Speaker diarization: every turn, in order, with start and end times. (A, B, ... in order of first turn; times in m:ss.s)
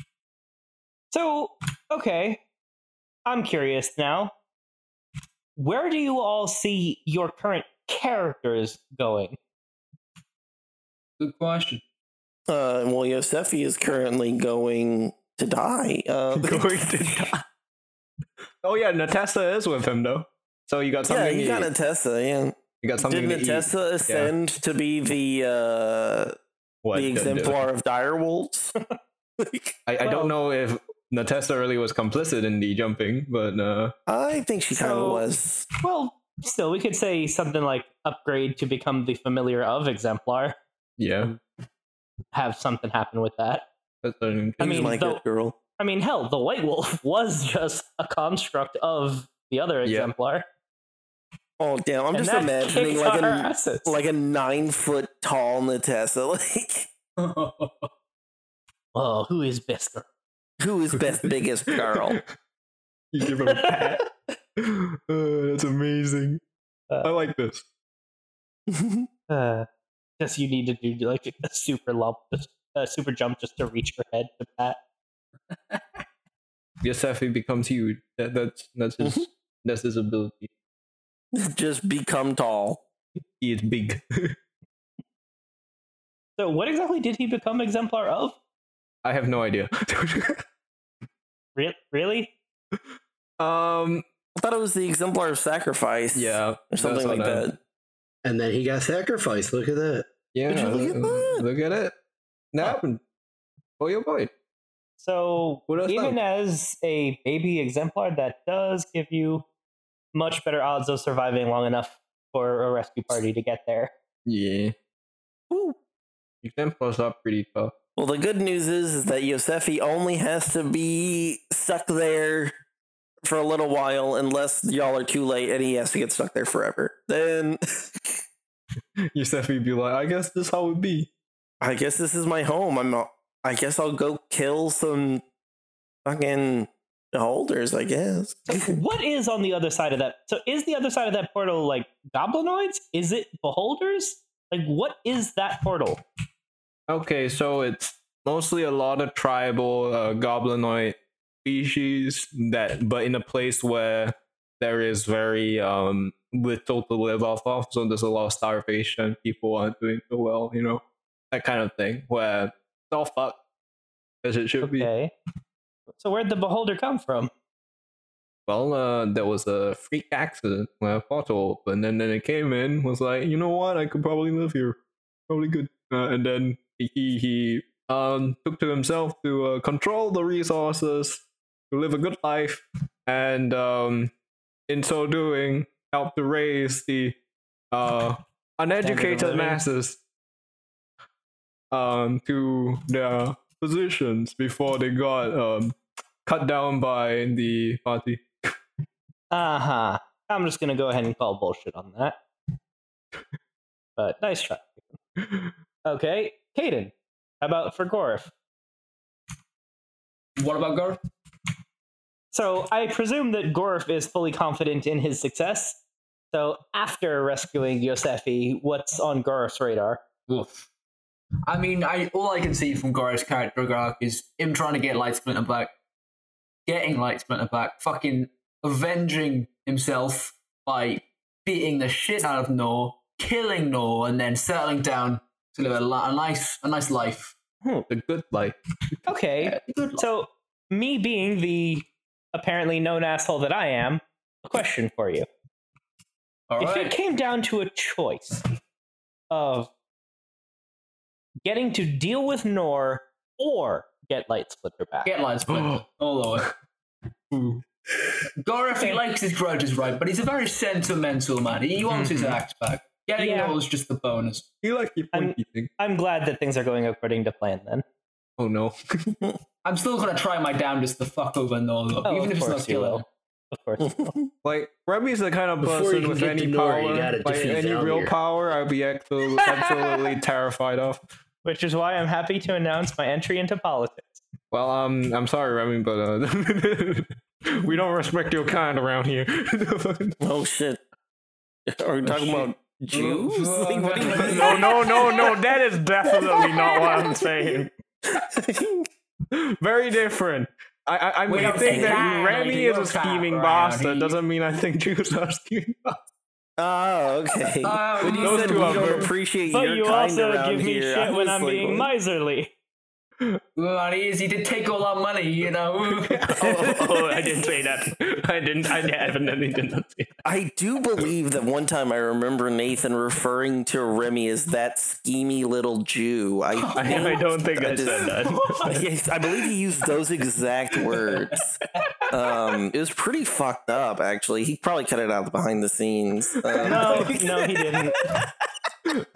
0:01.1-0:02.4 A
0:03.2-0:04.3 A
0:05.6-0:09.4 A
0:11.2-0:11.8 B
0:12.5-0:17.3 C
0:16.3-0:17.4 D
0:18.6-0:21.7 D
0:21.1-0:26.3 C
0:22.8-0:24.3 D
0:26.8-0:27.6 D
0:26.9-0:28.7 C
0:29.4-0:29.7 C
0:29.8-0:33.9 D
0:30.0-0:30.3 A
0:34.1-0:35.6 C
0:34.7-0:35.2 A
0:35.8-0:40.6 A
0:41.0-0:41.3 D
0:42.3-0:43.6 A
0:44.0-0:44.8 D
0:44.6-0:45.5 C
0:44.6-0:45.2 A
0:45.8-0:50.4 A
0:49.8-0:50.1 D
0:51.6-0:56.9 C
0:52.1-0:54.0 A
0:57.2-0:57.9 B
0:58.9-1:00.0 A
1:00.6-1:02.2 C
1:01.8-1:02.2 D
1:03.1-1:04.0 D
1:03.5-1:04.0 A
1:04.6-1:06.4 D
1:06.9-1:07.2 A
1:07.0-1:07.6 D
1:08.7-1:09.1 C
1:09.3-1:09.7 A
1:10.2-1:14.8 A
1:16.8-1:20.5 D
1:19.0-1:19.2 C
1:21.3-1:22.8 C
1:23.4-1:24.4 D
1:26.4-1:28.3 A
1:29.0-1:30.4 D
1:31.6-1:32.3 A
1:33.4-1:34.0 D
1:34.4-1:37.5 C
1:36.1-1:37.5 D
1:38.2-1:40.1 E
1:40.3-1:41.9 D
1:40.5-1:41.4 C
1:42.5-1:43.0 D
1:43.8-1:44.3 D
1:45.0-1:49.4 A
1:45.7-1:46.2 D
1:50.1-1:53.9 A
1:54.2-1:54.7 D
1:55.5-1:55.8 C
1:56.4-1:57.7 D
1:58.0-2:02.5 C
2:03.2-2:08.2 C
2:09.1-2:11.1 D
2:11.6-2:15.2 C
2:16.0-2:18.8 C
2:18.5-2:26.0 A
2:26.9-2:43.4 D
2:44.2-2:44.9 D
2:44.6-2:45.1 A
2:45.9-2:47.3 A
2:48.5-2:54.8 D
2:55.3-3:04.1 D
3:04.7-3:07.1 D
3:07.7-3:10.0 D
3:08.8-3:09.6 A
3:11.7-3:18.5 D
3:19.3-3:22.2 A
3:24.0-3:24.8 A
3:25.2-3:25.5 D
3:25.8-3:28.3 A
3:30.4-3:31.0 B
3:32.3-3:35.8 A
3:36.3-3:40.0 A
3:40.3-3:40.7 B
3:41.5-3:45.7 B
3:46.6-3:57.4 B
3:57.9-3:58.6 D
3:59.0-4:05.3 A
3:59.4-4:00.0 B
4:06.5-4:06.9 B
4:06.6-4:08.4 A
4:09.3-4:09.7 A
4:11.4-4:15.1 A
4:15.0-4:16.5 B
4:15.5-4:15.8 D
4:17.3-4:17.6 D
4:18.4-4:24.4 B
4:21.9-4:22.4 D
4:23.2-4:23.6 A
4:24.6-4:25.7 D
4:25.1-4:27.8 A
4:28.4-4:29.1 D
4:29.6-4:33.0 B
4:32.0-4:34.0 A
4:33.8-4:34.3 C
4:34.4-4:41.0 D
4:35.6-4:38.1 E
4:41.4-4:44.2 A
4:44.5-4:50.2 D
4:50.2-4:50.8 C
4:51.7-4:58.9 C
4:52.0-4:53.3 D
4:52.9-4:55.2 B
4:54.0-4:57.7 D
4:59.3-5:06.0 D
5:01.3-5:04.2 B
5:01.4-5:02.0 C
5:06.6-5:11.9 C
5:07.6-5:09.1 B
5:08.0-5:09.1 D
5:09.5-5:12.5 A
5:13.6-5:16.6 B
5:15.9-5:20.1 D
5:16.4-5:17.2 C
5:20.2-5:31.6 C
5:26.5-5:27.2 B
5:26.8-5:28.8 D
5:27.8-5:28.6 B
5:31.1-5:31.8 B
5:32.1-5:37.3 C
5:36.3-5:37.2 D
5:36.6-5:38.0 A